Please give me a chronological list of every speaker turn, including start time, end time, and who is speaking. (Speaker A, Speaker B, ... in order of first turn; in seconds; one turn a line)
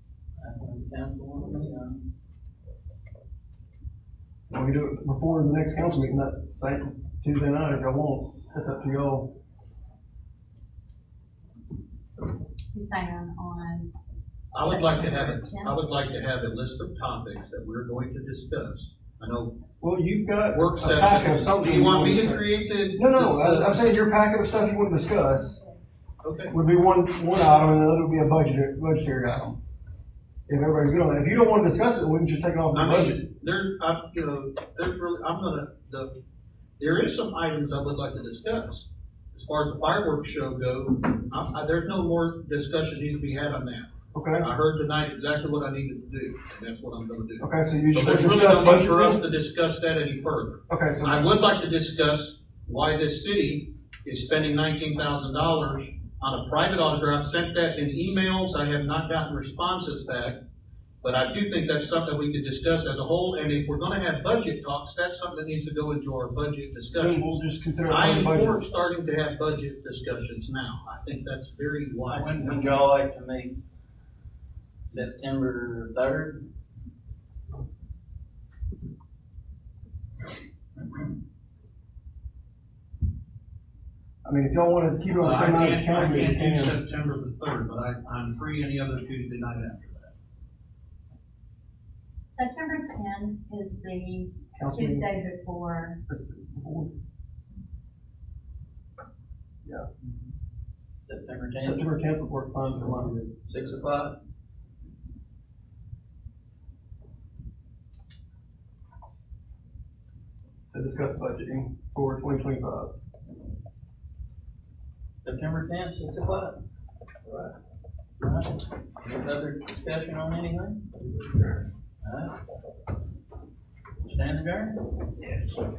Speaker A: 0.4-2.0
Speaker B: 4.5-9.3
Speaker C: 12.7-13.9
Speaker D: 14.5-19.5
Speaker C: 14.6-15.8
Speaker B: 19.8-25.6
Speaker D: 20.5-23.8
Speaker D: 26.2-26.6
Speaker B: 26.5-29.6
Speaker B: 30.5-33.2
Speaker D: 32.7-36.1
Speaker D: 36.8-60.4
Speaker B: 44.1-44.5
Speaker B: 47.4-49.2
Speaker B: 50.7-51.3
Speaker D: 61.0-72.7
Speaker B: 67.0-68.6
Speaker A: 72.0-73.5
Speaker A: 74.9-76.4
Speaker A: 80.8-81.0
Speaker B: 84.2-86.8
Speaker D: 85.2-90.1
Speaker C: 92.3-96.0
Speaker B: 94.6-95.1
Speaker B: 96.1-96.9
Speaker A: 101.0-101.8
Speaker B: 101.6-103.2
Speaker A: 103.4-104.2
Speaker B: 110.7-112.9
Speaker A: 115.2-116.6
Speaker A: 118.2-120.8
Speaker A: 122.0-122.3
Speaker A: 124.0-124.8